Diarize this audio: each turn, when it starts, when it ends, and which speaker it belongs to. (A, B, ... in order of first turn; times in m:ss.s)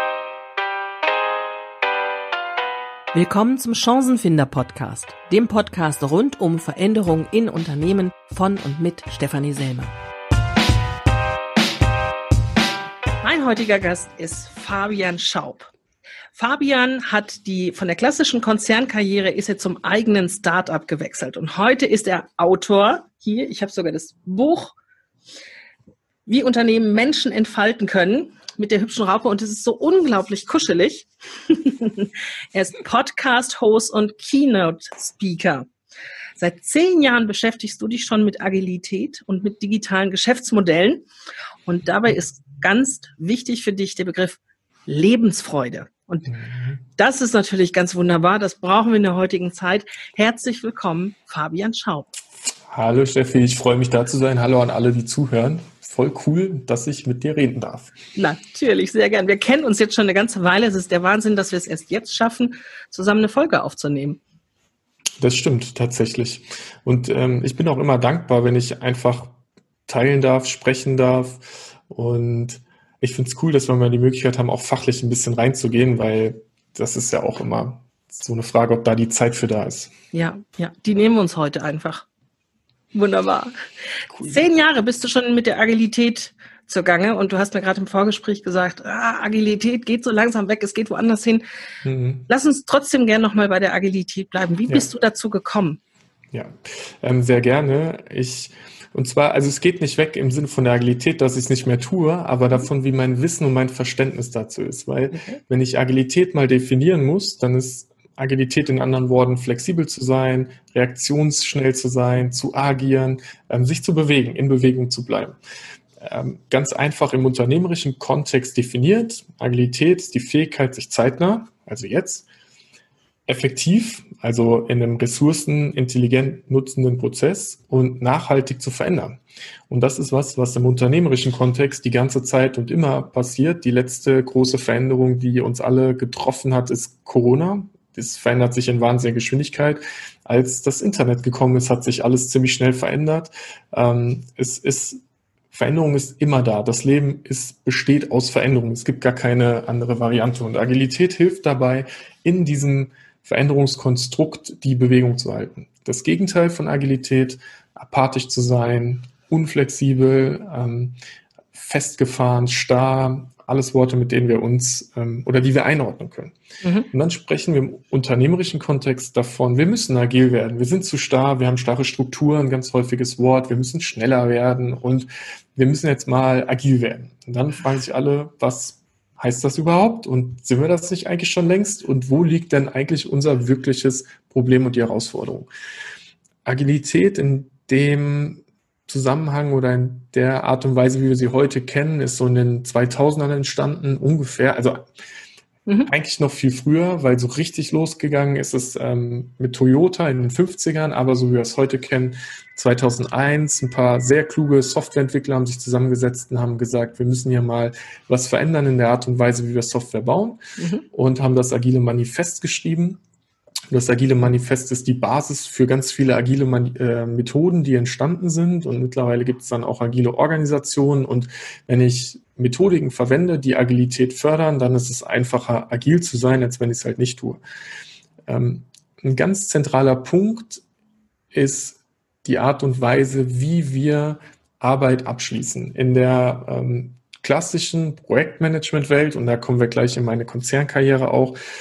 0:03.1-0:09.9 A
0:13.2-0:15.7 A
0:16.3-0:24.7 A
0:26.2-0:35.7 A
0:36.4-0:41.0 A
0:41.6-0:46.3 A
0:46.3-0:46.8 B
0:47.0-0:52.1 A
0:52.7-0:57.9 B
0:58.2-1:04.2 A
1:05.2-1:09.3 B
1:09.9-1:19.9 B
1:20.1-1:22.0 A
1:22.9-1:23.6 A
1:24.1-1:24.4 B
1:24.2-1:31.4 A
1:31.8-1:32.3 B
1:32.3-1:35.8 A
1:36.3-1:55.4 B
1:45.1-1:45.4 A
1:56.0-2:02.2 B
2:03.3-2:25.0 B
2:25.5-2:40.9 B
2:41.5-2:46.4 B
2:46.6-2:46.9 A
2:46.9-3:05.5 B
3:06.4-3:14.8 B
3:15.9-3:30.4 B
3:30.6-3:30.8 A
3:30.9-3:33.0 B
3:33.7-3:47.4 B
3:48.3-3:50.6 B
3:51.3-4:01.4 B